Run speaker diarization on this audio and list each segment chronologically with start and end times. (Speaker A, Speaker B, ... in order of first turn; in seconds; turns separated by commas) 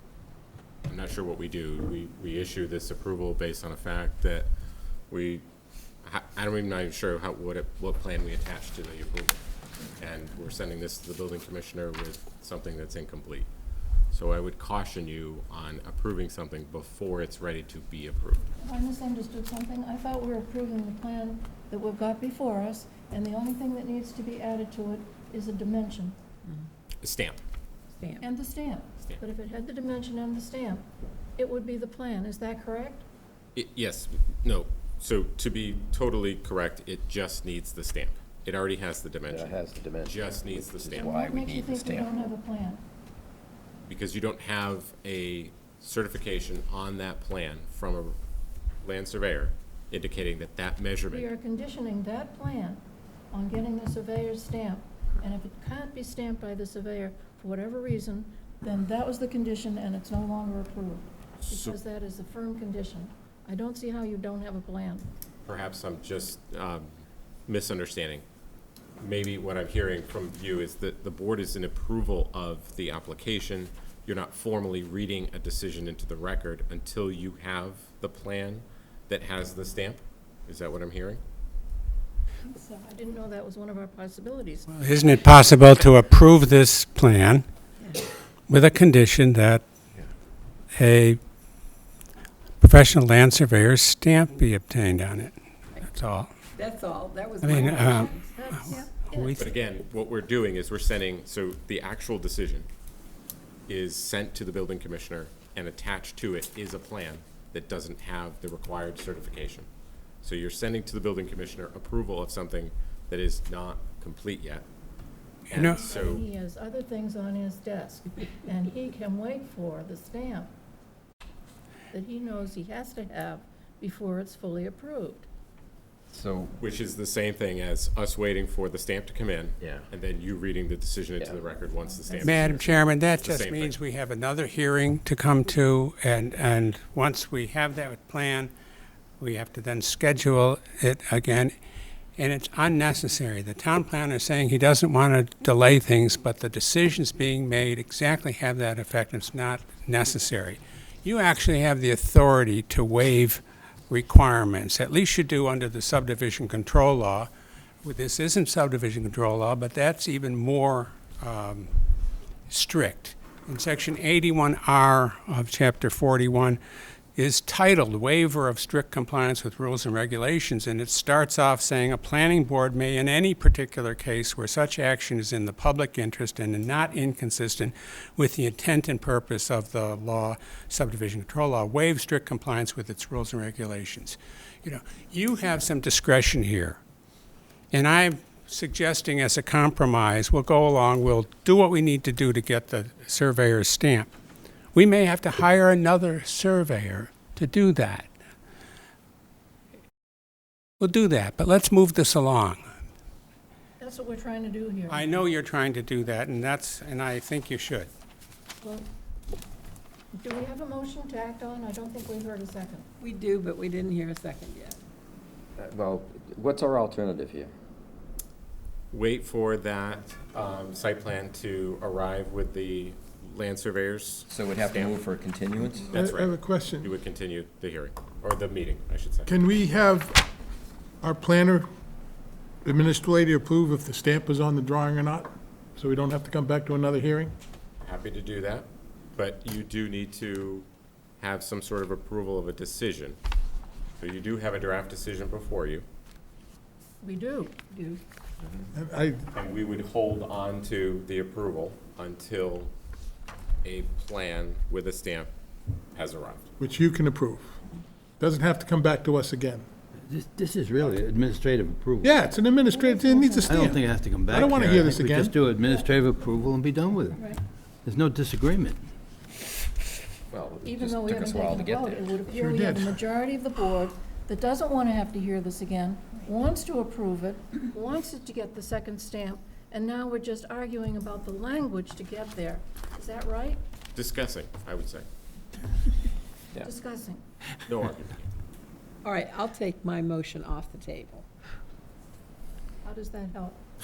Speaker A: 0.9-4.5, Speaker A: 5.1-5.5, Speaker A: 6.0-9.4, Speaker A: 10.0-13.5, Speaker A: 14.1-18.5, Speaker B: 18.6-26.2, Speaker A: 27.0-27.4, Speaker C: 28.0-28.3, Speaker B: 28.2-30.9, Speaker B: 31.4-33.0, Speaker A: 33.5-41.1, Speaker D: 39.3-42.1, Speaker B: 40.9-42.8, Speaker A: 43.9-48.2, Speaker A: 48.8-51.3, Speaker B: 51.1-65.1, Speaker A: 61.4-61.8, Speaker A: 65.4-66.9, Speaker A: 67.5-68.2, Speaker A: 69.0-81.2, Speaker B: 82.5-85.2, Speaker E: 84.7-87.4, Speaker E: 88.5-89.6, Speaker E: 90.7-91.2, Speaker E: 92.6-96.3, Speaker C: 96.5-98.2, Speaker E: 97.4-99.5, Speaker B: 97.8-99.4, Speaker A: 99.4-102.7, Speaker A: 103.7-109.7, Speaker A: 110.2-114.7, Speaker E: 115.5-115.8, Speaker A: 115.5-116.2, Speaker B: 115.6-120.5, Speaker B: 121.9-125.3, Speaker D: 126.1-126.6, Speaker A: 126.6-133.7, Speaker D: 129.6-129.8, Speaker B: 132.1-132.5, Speaker E: 132.2-138.5, Speaker E: 139.2-141.5, Speaker E: 142.2-157.3, Speaker E: 157.8-161.7, Speaker E: 162.5-166.6, Speaker E: 167.2-186.8, Speaker E: 187.7-194.1, Speaker E: 194.7-198.1, Speaker E: 200.8-202.6, Speaker B: 203.8-205.1, Speaker E: 204.9-207.9, Speaker B: 208.6-208.9, Speaker B: 210.2-212.9, Speaker C: 213.0-214.8, Speaker D: 215.6-217.5, Speaker A: 218.9-225.0, Speaker D: 224.3-226.0, Speaker F: 225.8-226.9, Speaker A: 225.9-229.3, Speaker F: 229.2-230.2, Speaker F: 231.0-231.7, Speaker F: 232.6-237.3, Speaker A: 237.8-240.7, Speaker A: 241.2-243.2, Speaker A: 244.0-245.8, Speaker B: 247.0-247.7, Speaker C: 247.7-248.0, Speaker F: 248.7-249.3, Speaker A: 249.3-252.7, Speaker A: 253.6-255.3, Speaker A: 255.9-256.5, Speaker F: 256.6-257.6, Speaker F: 258.2-259.6, Speaker G: 260.1-262.1, Speaker F: 262.0-263.8, Speaker B: 262.7-263.8, Speaker G: 263.4-267.2, Speaker F: 264.3-265.4, Speaker D: 264.3-264.9, Speaker G: 267.8-268.8, Speaker D: 270.3-272.2, Speaker B: 270.6-283.6, Speaker F: 272.3-273.0, Speaker A: 283.9-285.1, Speaker B: 286.6-287.2, Speaker A: 287.6-288.2, Speaker C: 289.0-291.2, Speaker B: 292.8-293.6